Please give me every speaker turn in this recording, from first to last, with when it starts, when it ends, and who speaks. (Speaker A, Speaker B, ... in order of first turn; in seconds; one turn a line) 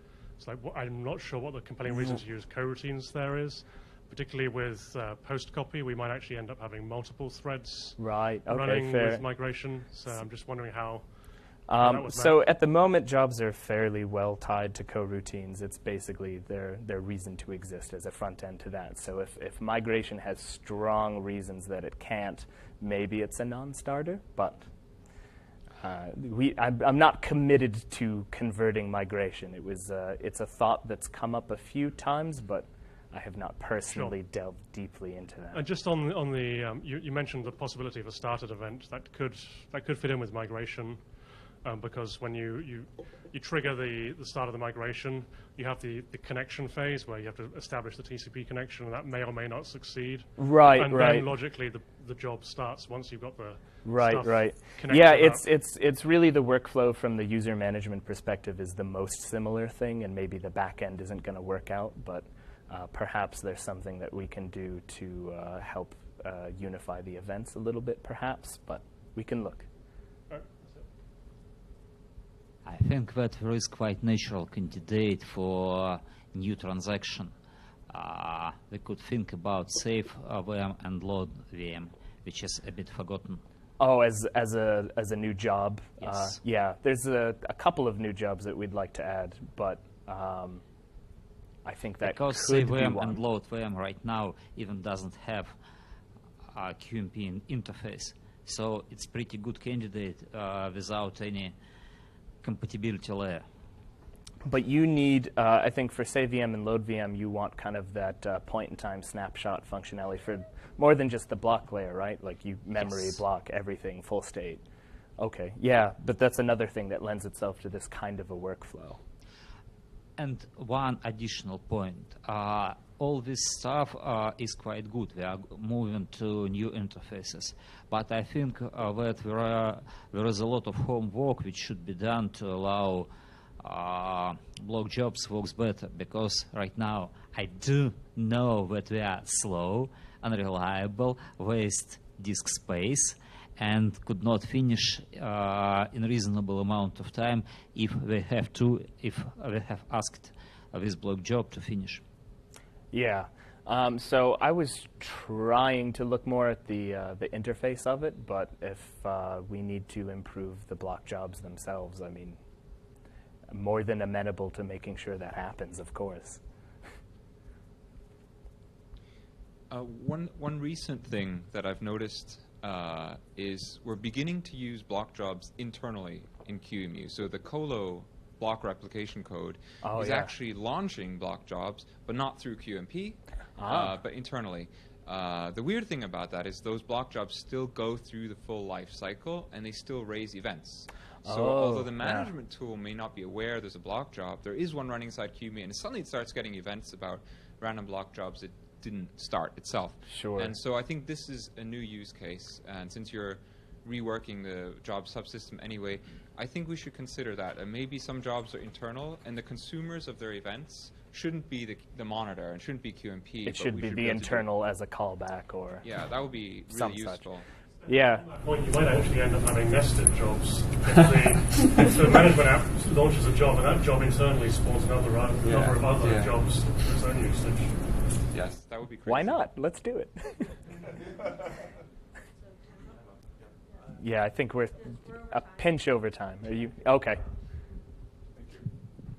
Speaker A: 0.4-11.1
Speaker B: 1.9-2.2
Speaker B: 8.0-9.2
Speaker B: 11.7-24.7
Speaker A: 11.8-12.4
Speaker B: 25.8-35.7
Speaker A: 35.5-41.0
Speaker A: 41.6-55.4
Speaker B: 50.4-51.3
Speaker B: 53.8-69.7
Speaker A: 70.3-70.8
Speaker C: 72.7-77.3
Speaker C: 77.9-83.4
Speaker B: 83.8-90.6
Speaker C: 86.0-86.3
Speaker B: 91.7-93.2
Speaker C: 92.0-95.5
Speaker C: 96.5-101.5
Speaker C: 102.4-103.4
Speaker B: 104.5-114.6
Speaker B: 115.2-119.0
Speaker C: 120.2-133.1
Speaker C: 133.6-152.0
Speaker B: 152.9-162.4
Speaker B: 163.5-166.4
Speaker D: 169.7-214.5
Speaker B: 179.8-180.3
Speaker B: 183.6-183.9
Speaker B: 191.2-192.3
Speaker B: 200.1-200.5
Speaker B: 213.4-215.9
Speaker D: 215.8-217.5
Speaker B: 216.7-217.3
Speaker A: 217.8-227.8
Speaker B: 217.9-218.3
Speaker D: 225.4-226.3
Speaker D: 228.3-229.4
Speaker B: 229.1-230.6
Speaker B: 233.9-237.2